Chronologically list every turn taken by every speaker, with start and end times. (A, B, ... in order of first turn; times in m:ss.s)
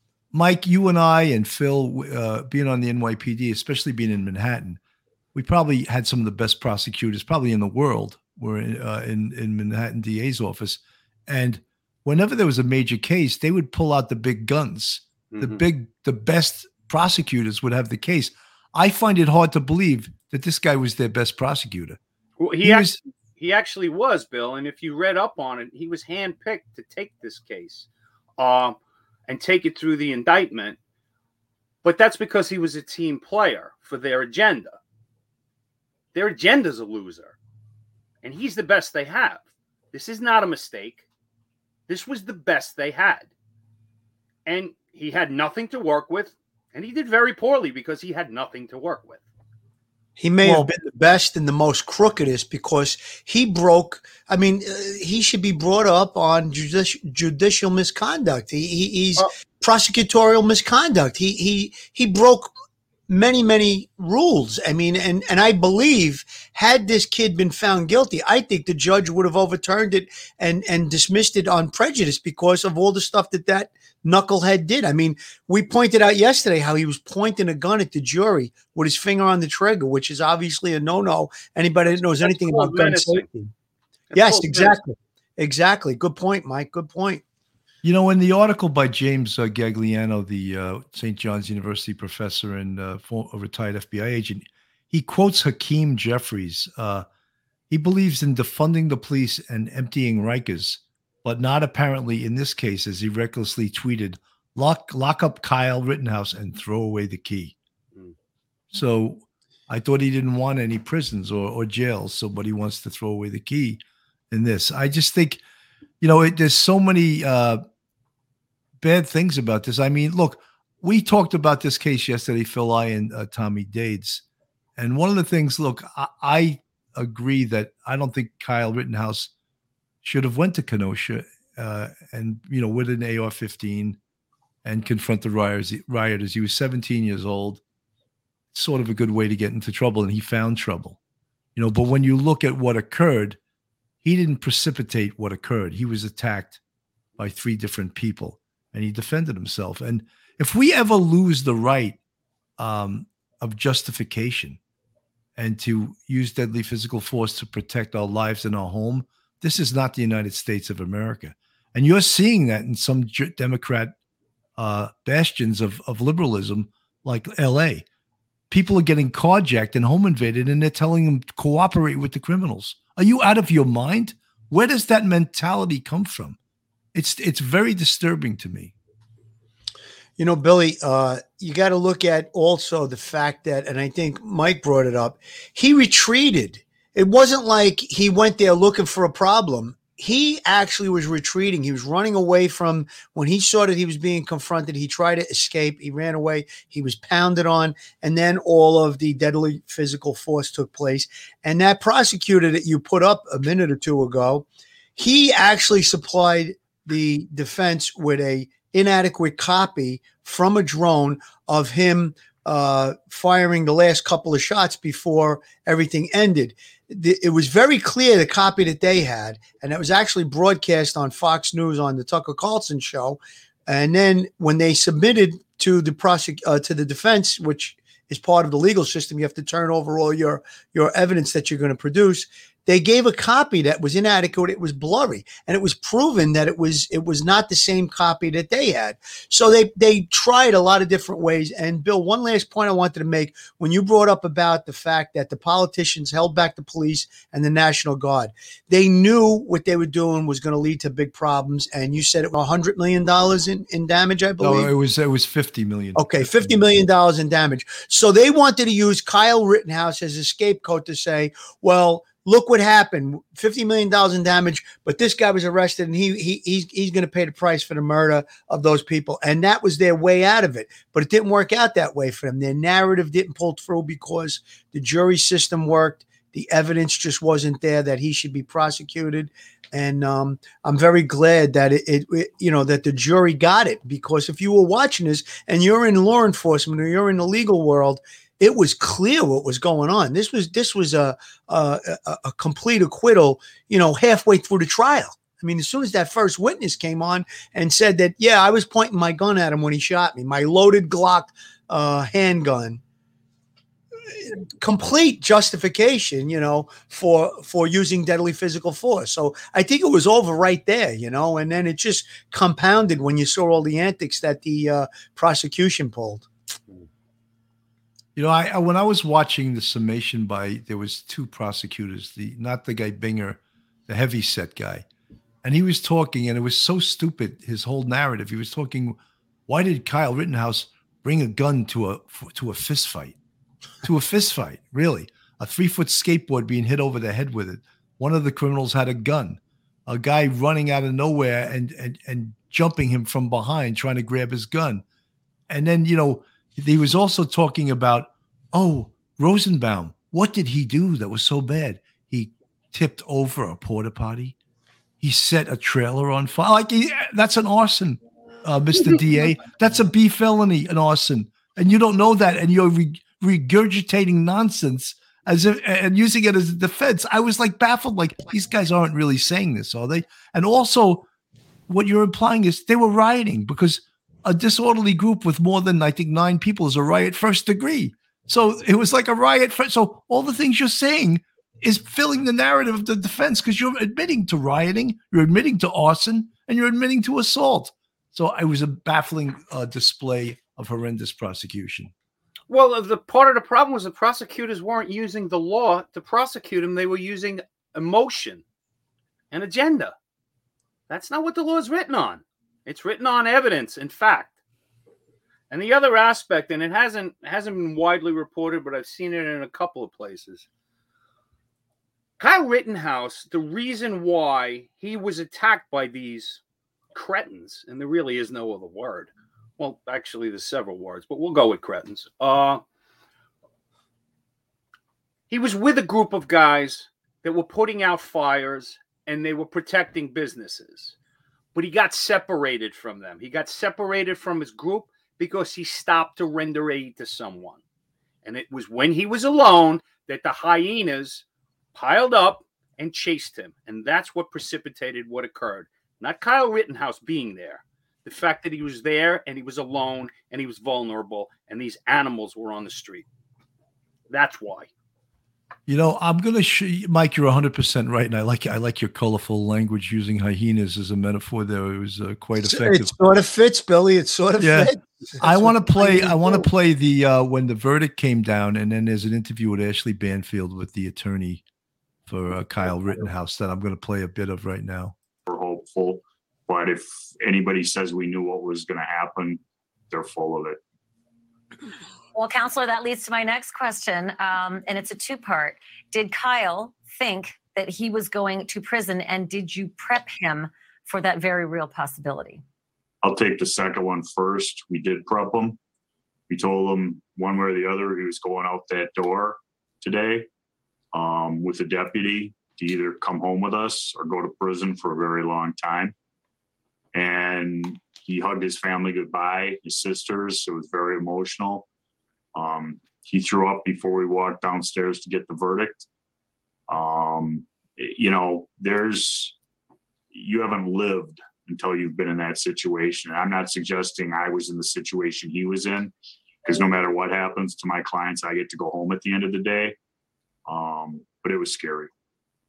0:00.3-0:04.8 A
0:05.3-0:22.0 A
0:15.3-0:15.6 B
0:22.4-0:30.8 B
0:22.6-0:23.0 A
0:31.8-0:34.8 B
0:36.1-0:37.4 B
0:38.2-0:41.0 B
0:41.9-0:43.3 B
0:44.4-0:49.2 B
0:50.2-1:02.5 C
0:50.4-0:50.7 A
1:03.1-1:23.5 C
1:21.9-1:23.2 B
1:24.1-1:24.8 B
1:24.1-1:27.2 C
1:27.8-1:37.0 A
1:37.7-1:47.5 A
1:48.7-1:53.8 A
1:54.3-1:55.4 A
1:56.0-1:57.6 A
1:58.8-2:04.2 A
2:04.8-2:09.3 A
2:10.0-2:14.0 A
2:14.6-2:17.6 A
2:18.5-2:21.0 A
2:21.5-2:23.4 A
2:24.0-2:26.6 A
2:27.2-2:32.0 A
2:32.6-2:34.6 A
2:35.4-2:43.9 A
2:44.6-2:47.8 A
2:48.5-2:56.4 A
2:56.9-2:58.7 A
3:00.2-3:24.4 C
3:25.0-4:14.7 C
4:14.4-4:16.6 A
4:16.0-5:02.8 C
5:04.1-5:16.3 C
5:18.2-5:24.8 A
5:25.4-5:33.2 A
5:33.8-5:44.8 A
5:45.5-5:54.4 A
5:55.0-6:11.0 A
6:11.7-6:31.9 A
6:32.5-6:38.4 B
6:39.3-6:39.9 B
6:40.9-6:44.3 B
6:45.5-6:50.5 B
6:52.2-6:56.4 B
6:56.9-7:02.6 B
7:05.3-7:11.0 B
7:11.5-7:17.6 B
7:18.2-7:33.1 B
7:34.1-7:34.7 B
7:35.7-7:42.9 A
7:42.4-7:46.4 C
7:44.4-7:51.4 A
7:52.1-7:54.9 A
7:55.3-7:59.4 D
7:59.9-8:00.6 D
8:02.1-8:12.4 E
8:13.0-8:15.6 D
8:16.3-8:20.3 D
8:20.9-8:25.9 D
8:26.9-8:31.7 D
8:32.3-8:35.9 D
8:36.7-8:39.4 D
8:40.1-8:49.8 D
8:50.5-8:51.9 D